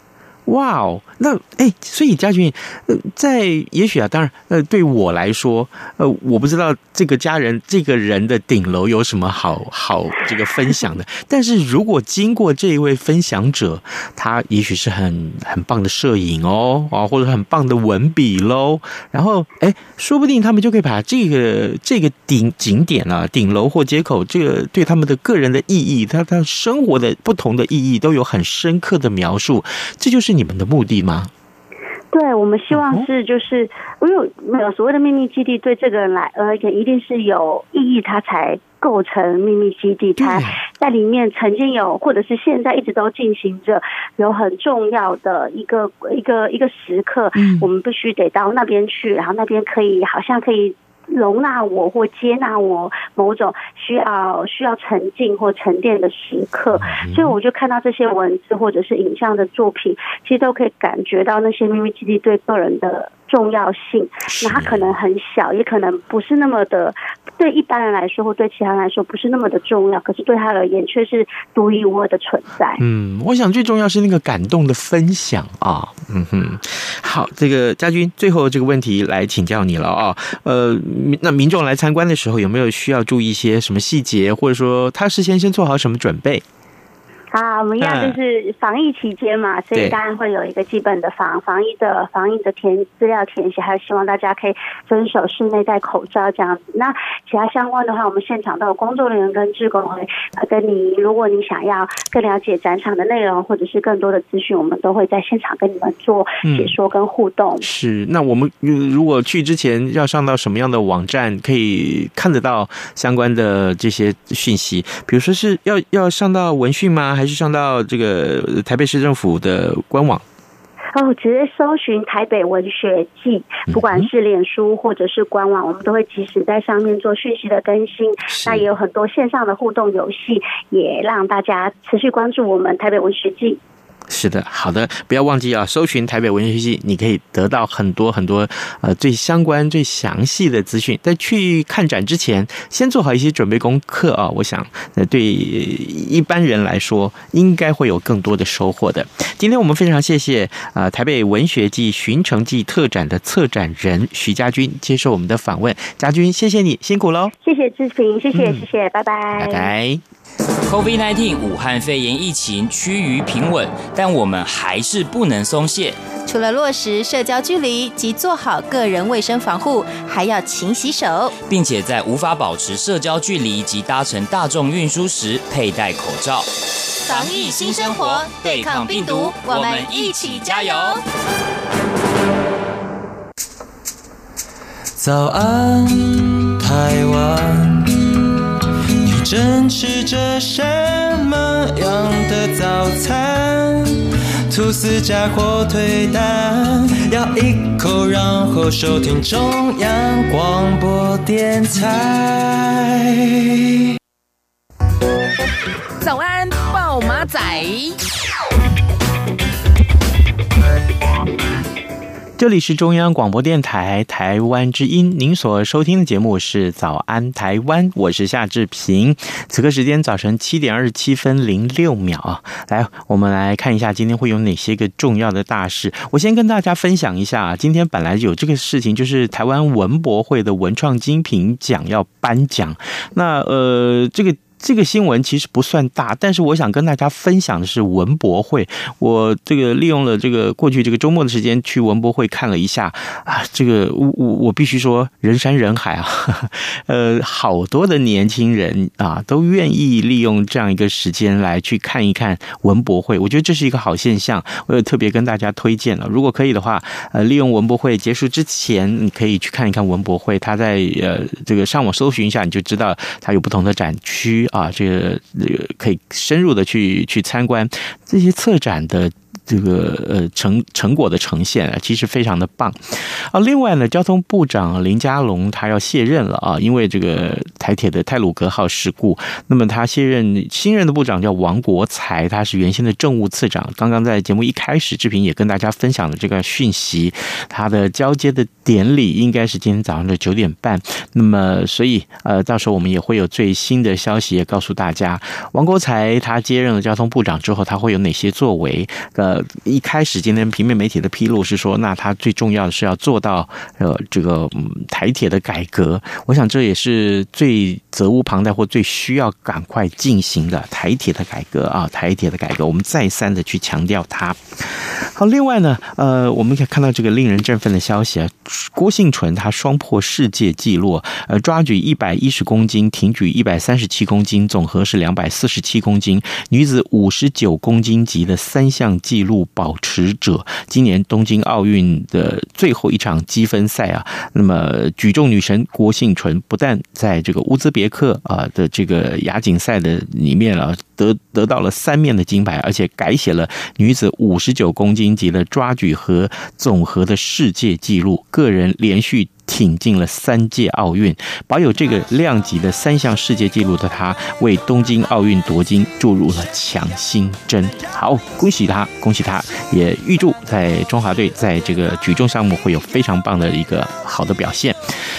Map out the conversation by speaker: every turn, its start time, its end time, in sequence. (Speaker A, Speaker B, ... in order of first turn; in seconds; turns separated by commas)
Speaker A: 0.5-31.3, Speaker B: 32.1-72.8, Speaker A: 32.7-33.1, Speaker A: 40.2-40.6, Speaker A: 47.4-47.7, Speaker A: 56.8-57.4, Speaker A: 64.3-64.9, Speaker A: 72.8-86.4, Speaker B: 87.3-107.6, Speaker A: 87.8-88.2, Speaker A: 106.4-106.7, Speaker A: 107.6-120.2, Speaker B: 120.9-133.6, Speaker A: 123.7-124.1, Speaker A: 128.3-128.7, Speaker A: 134.1-157.3, Speaker B: 157.4-159.7, Speaker A: 158.3-158.6, Speaker A: 159.4-160.0, Speaker C: 160.6-166.0, Speaker D: 166.2-171.3, Speaker C: 171.5-176.5, Speaker C: 177.0-181.0, Speaker D: 177.1-181.0, Speaker E: 185.0-188.2, Speaker E: 189.0-203.2, Speaker F: 206.0-208.0, Speaker A: 212.4-364.8